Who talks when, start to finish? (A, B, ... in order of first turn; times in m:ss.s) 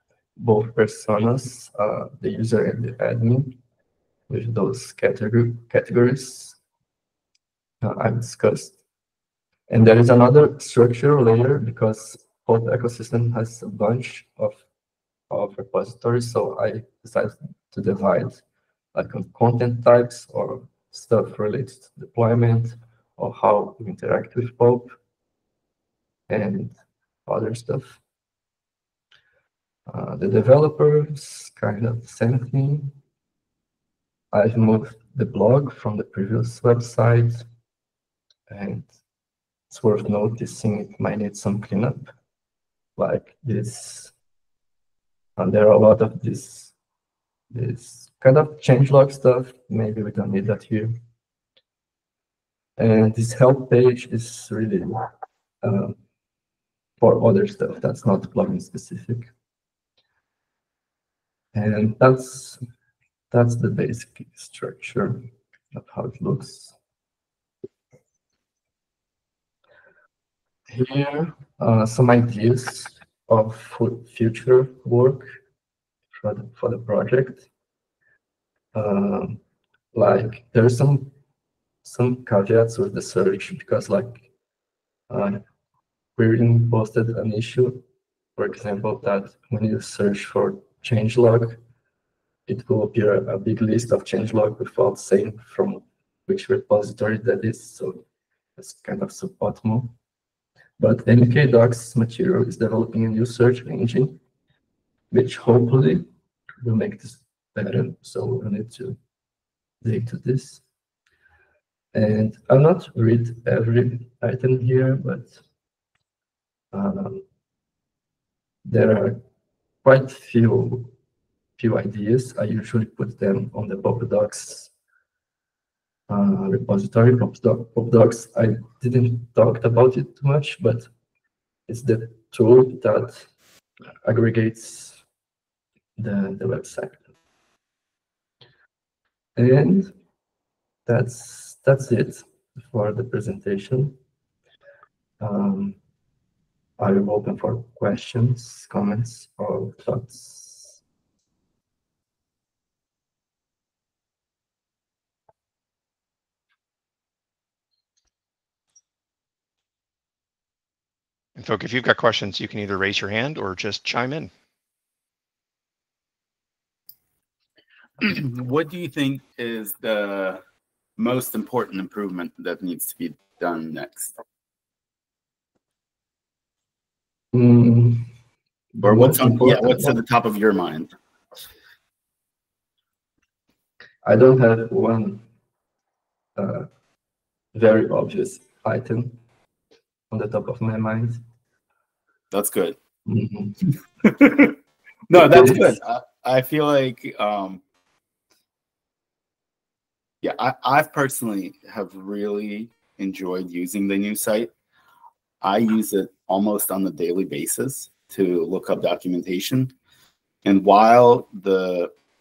0:00.4-0:03.6 A
0:04.3-0:06.6 A
0:07.8-0:08.8 A
0:09.7-0:14.6 A
0:15.3-0:18.4 A
0:18.9-0:25.0 A
0:26.3-0:26.7 A
0:27.2-0:28.0 A
0:29.9-0:32.9 A
0:34.3-0:37.4 A
0:38.5-0:38.9 A
0:39.7-0:42.1 A
0:43.0-0:44.1 A
0:45.4-0:46.7 A
0:47.5-0:51.0 A
0:52.8-0:55.1 A
0:55.6-0:56.0 A
0:57.0-0:59.3 A
1:01.5-1:02.6 A
1:03.3-1:06.7 A
1:10.7-1:15.4 A
1:16.1-1:17.5 A
1:18.7-1:19.4 A
1:19.9-1:21.1 A
1:21.8-1:24.3 A
1:25.1-1:25.4 A
1:26.2-1:27.8 A
1:28.4-1:31.6 A
1:32.5-1:38.0 A
1:38.6-1:39.9 A
1:40.8-1:44.2 A
1:45.1-1:46.1 A
1:46.6-1:49.0 A
1:49.8-1:50.6 A
1:51.9-1:55.4 A
1:56.7-1:57.2 A
1:58.6-1:59.2 A
1:59.8-2:00.9 A
2:01.6-2:04.7 A
2:06.1-2:10.9 A
2:11.7-2:13.3 A
2:14.0-2:15.0 A
2:16.0-2:17.1 A
2:19.4-2:19.9 A
2:20.8-2:24.0 A
2:25.2-2:25.8 A
2:26.8-2:30.8 A
2:41.4-2:44.3 B
2:48.0-2:50.4 C
2:51.0-2:54.2 C
2:57.3-2:58.1 A
2:58.7-3:00.0 A
2:58.8-3:00.9 C
3:04.0-3:05.2 A
3:06.4-3:06.7 A
3:07.5-3:09.2 A
3:10.1-3:11.2 A
3:12.3-3:12.8 C
3:13.1-3:13.6 A
3:14.0-3:14.6 C
3:15.1-3:17.6 C
3:15.1-3:15.7 A
3:20.2-3:24.5 C
3:25.4-3:29.7 C
3:30.4-3:31.9 C